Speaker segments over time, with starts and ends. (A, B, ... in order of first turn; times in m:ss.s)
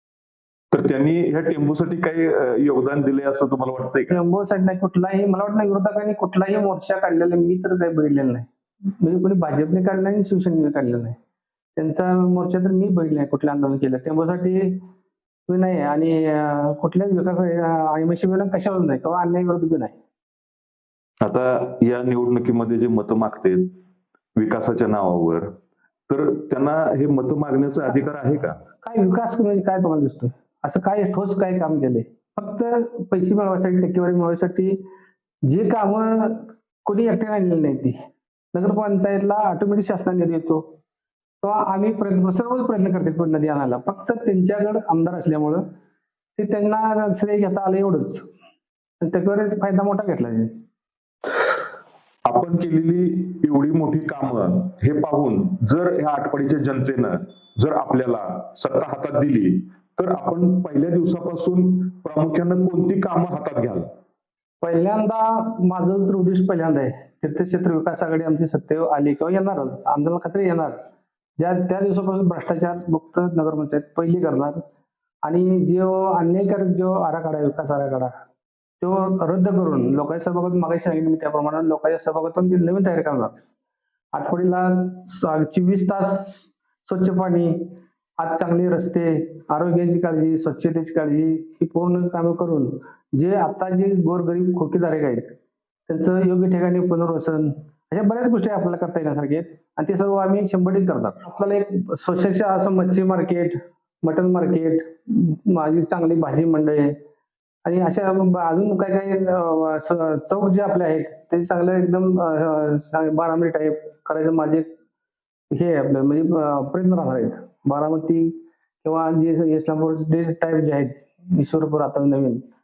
0:00.7-0:04.1 A
0:04.1-0:08.5 B
0:09.0-0:11.2 B
0:11.8-0:14.8 B
0:15.5-0:19.9 B
0:21.2-0:23.7 A
0:24.4-0:25.5 A
0:26.1-0:28.6 A
0:28.8-0:34.8 B
0:35.4-0:37.9 B
0:38.5-0:40.6 B
0:41.4-0:45.6 B
0:46.4-0:48.2 B
0:49.0-0:50.5 B
0:52.2-1:03.9 A
1:04.6-1:10.7 B
1:11.4-1:14.6 B
1:15.2-1:18.1 B
1:18.8-1:23.3 B
1:24.1-1:35.3 B
1:35.9-1:46.9 B
1:47.6-1:54.7 B
1:55.5-2:02.4 B